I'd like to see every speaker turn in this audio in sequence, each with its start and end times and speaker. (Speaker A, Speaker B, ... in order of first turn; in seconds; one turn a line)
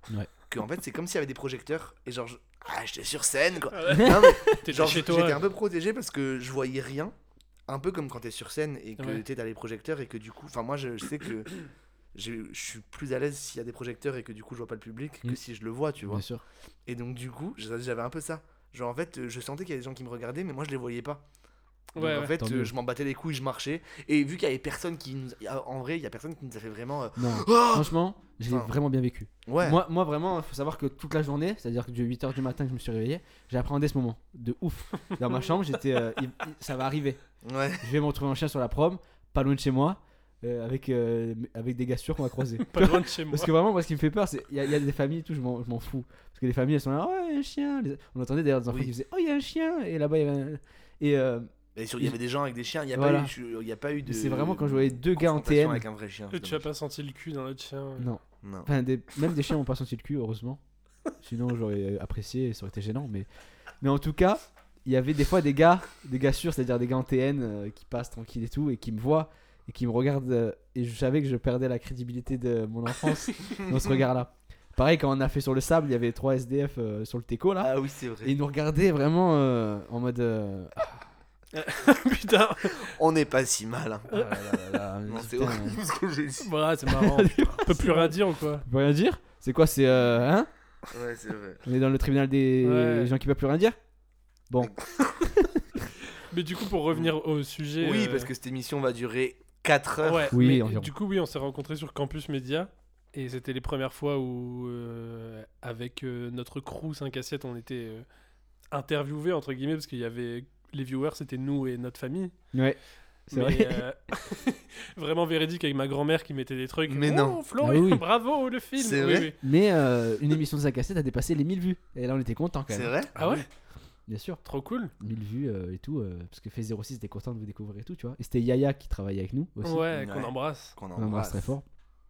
Speaker A: 0.5-7.2
Speaker B: 3.7-5.4
Speaker C: 4.0-4.5
Speaker A: 7.7-11.6
Speaker A: 12.1-16.2
Speaker C: 16.1-16.4
Speaker A: 16.9-21.2
Speaker B: 22.0-22.4
Speaker A: 22.0-27.9
Speaker C: 22.4-22.7
Speaker C: 27.2-52.2
Speaker A: 28.5-28.7
Speaker A: 29.5-29.8
Speaker A: 37.4-37.9
Speaker B: 42.6-43.5
Speaker A: 51.8-56.7
Speaker C: 52.9-53.3
Speaker C: 54.1-55.9
Speaker B: 56.3-58.1
Speaker C: 58.0-77.7
Speaker A: 58.4-58.7
Speaker A: 77.6-78.4
Speaker C: 78.2-81.0
Speaker B: 81.5-82.9
Speaker A: 82.6-84.1
Speaker C: 84.1-85.8
Speaker A: 85.1-86.5
Speaker B: 86.4-88.6
Speaker C: 86.9-90.5
Speaker A: 90.9-91.6
Speaker C: 91.7-93.8
Speaker B: 92.6-93.1
Speaker C: 94.5-94.8
Speaker A: 94.6-95.2
Speaker B: 96.1-98.3
Speaker A: 97.8-100.3
Speaker B: 100.0-108.1
Speaker C: 100.3-100.9
Speaker B: 108.7-112.7
Speaker C: 112.5-113.9
Speaker B: 113.3-119.4
Speaker A: 116.9-117.4
Speaker C: 117.6-118.0
Speaker A: 118.8-119.3
Speaker C: 119.4-123.4
Speaker A: 122.7-123.2
Speaker B: 123.2-123.5
Speaker C: 124.0-124.5
Speaker B: 124.4-124.9
Speaker C: 125.0-129.9
Speaker B: 129.7-130.8
Speaker A: 129.9-131.5
Speaker C: 131.0-131.6